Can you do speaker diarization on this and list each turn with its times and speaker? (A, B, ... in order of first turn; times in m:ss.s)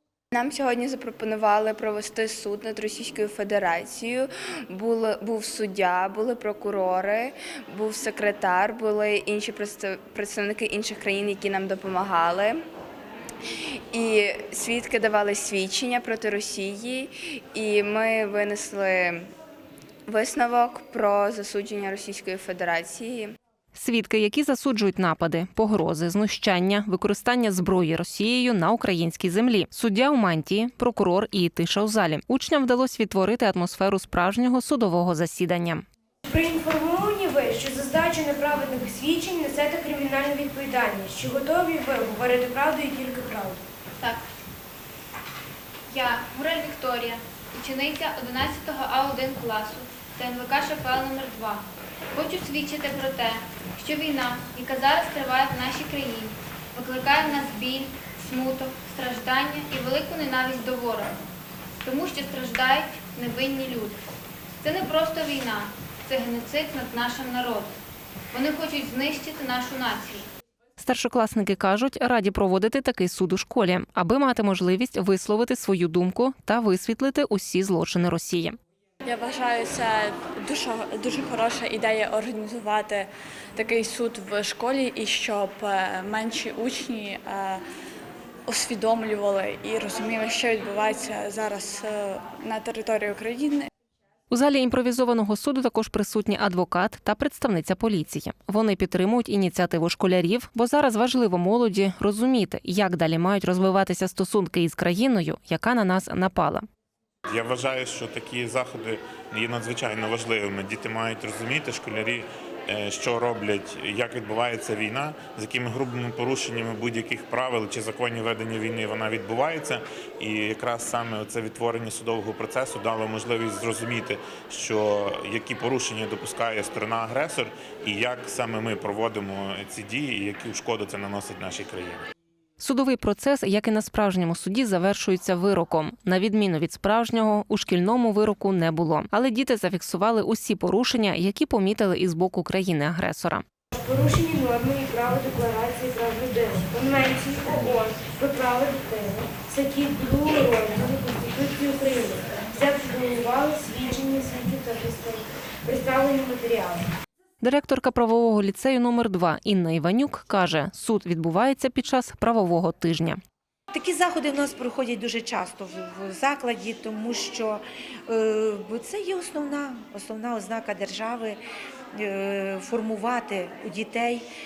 0:00.3-0:12.6 A
0:13.9-0:19.3 A
0:20.1-0:23.4 A
0:23.7-0:35.8 B
0:36.3-0:43.6 C
0:44.0-0:44.3 D
0:45.9-1:01.2 D
1:01.8-1:04.0 D
1:04.6-1:07.7 D
1:08.3-1:10.3 D
1:10.8-1:18.6 B
1:19.0-1:27.6 E
1:28.5-1:33.7 E
1:34.3-1:46.7 B
1:47.3-2:12.0 F
2:12.6-2:23.4 B
2:23.7-2:36.9 C
2:37.4-2:43.2 B
2:43.7-2:51.4 G
2:51.9-2:54.2 G